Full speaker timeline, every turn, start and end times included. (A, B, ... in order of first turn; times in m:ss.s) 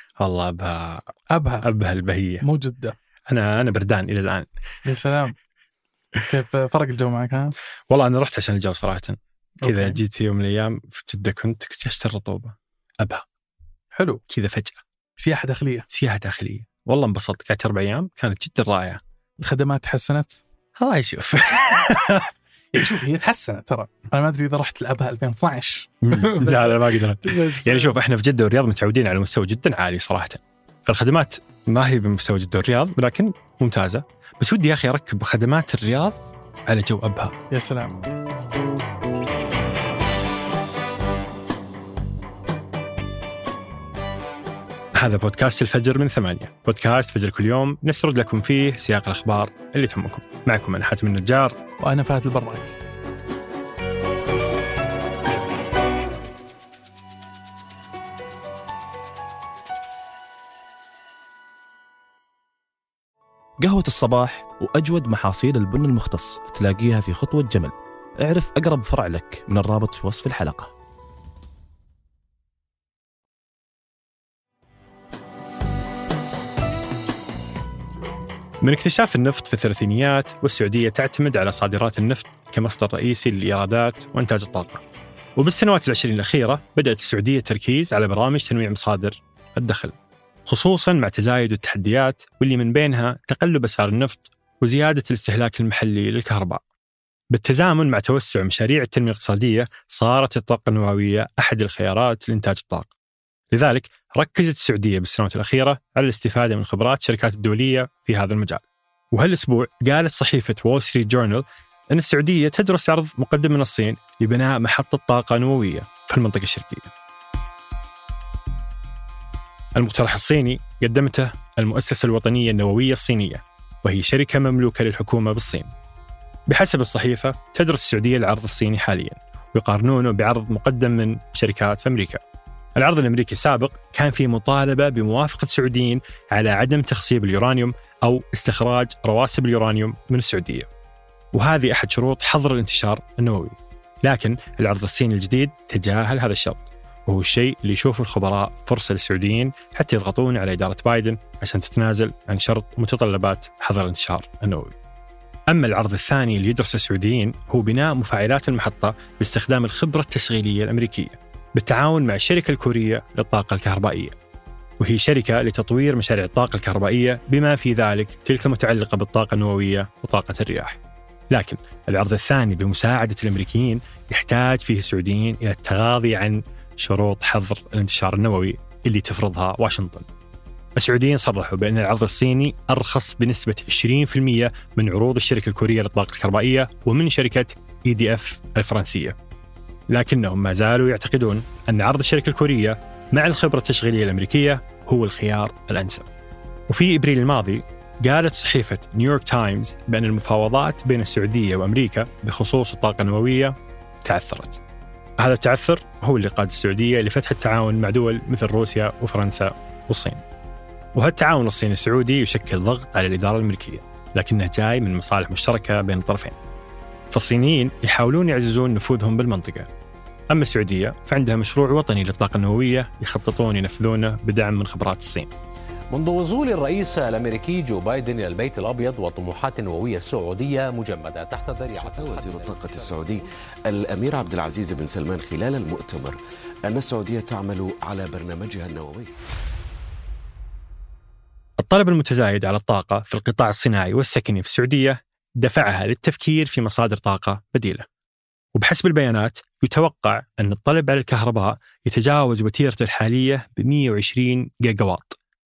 0:00.2-0:01.1 A
0:01.3-0:01.6 B
0:01.6-0:02.4 A
0:02.4-0:03.0 B
0:03.3-0:04.5 A
0:04.8-0:05.4 B
0:06.3-0:07.5 B
0:07.9-0:13.2 A
0:09.6-0:10.0 B
0:13.9-0:14.2 B
0:14.3-0:14.8 A
0:15.2-0:15.8 B
0:15.9-0:19.0 A
0:19.4-0:20.4 B
0:20.8-0:22.3 A
0:22.7-0:28.0 B
0:26.1-0:37.3 A
0:37.5-0:37.9 B
0:45.0-0:51.5 A
0:51.8-0:52.7 B
1:03.6-1:10.7 C
1:18.6-1:24.8 A
1:25.4-1:29.9 A
1:30.5-1:36.6 A
1:37.3-1:42.9 A
1:43.5-1:48.6 A
1:49.1-1:56.9 A
1:59.8-2:05.7 A
2:06.5-2:12.2 A
2:12.8-2:20.7 A
2:21.3-2:34.8 A
2:35.5-2:44.1 A
2:44.8-2:50.8 A
2:51.3-3:00.0 A
3:00.8-3:09.1 A
3:09.9-3:16.0 A
3:16.7-3:23.5 A
3:24.0-3:24.6 A
3:25.2-3:30.2 A
3:30.9-3:36.4 A
3:37.1-3:39.7 A
3:40.3-3:45.3 A
3:45.9-3:53.2 D
3:51.7-3:59.1 E
4:01.6-4:07.8 A
4:08.5-4:15.2 A